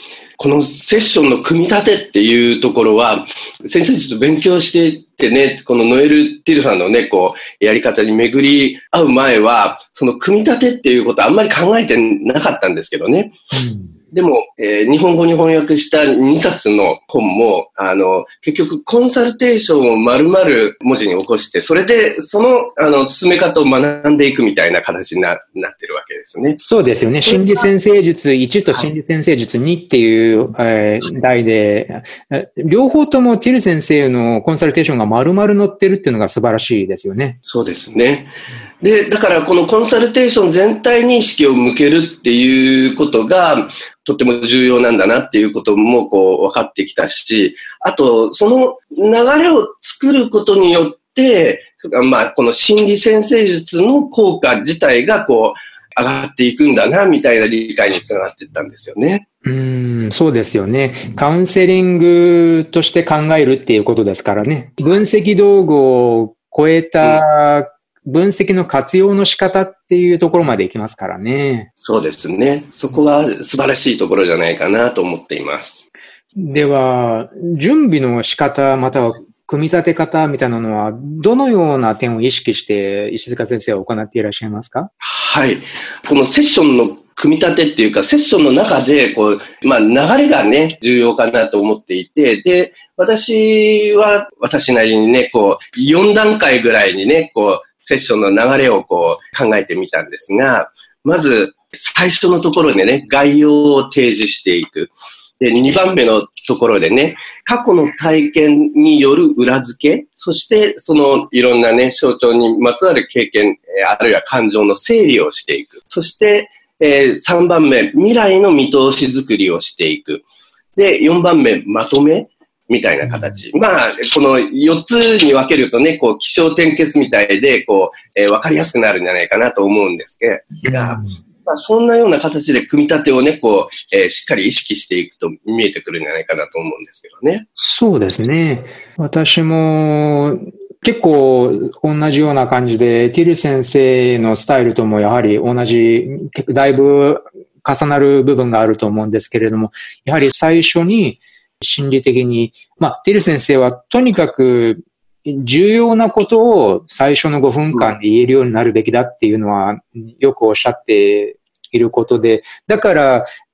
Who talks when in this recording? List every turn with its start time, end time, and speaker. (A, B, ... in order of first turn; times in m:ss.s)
0:00.4-0:13.4 A
0:13.5-0:14.0 B
0:14.1-0:26.6 A
0:26.6-0:37.4 B
0:27.3-0:27.6 A
0:37.5-0:59.2 A
0:59.4-1:11.7 B
1:11.8-1:15.8 A
1:16.4-1:24.9 B
1:25.0-2:00.2 A
2:00.8-2:17.5 A
2:03.1-2:03.4 B
2:10.6-2:11.2 B
2:17.6-2:43.3 B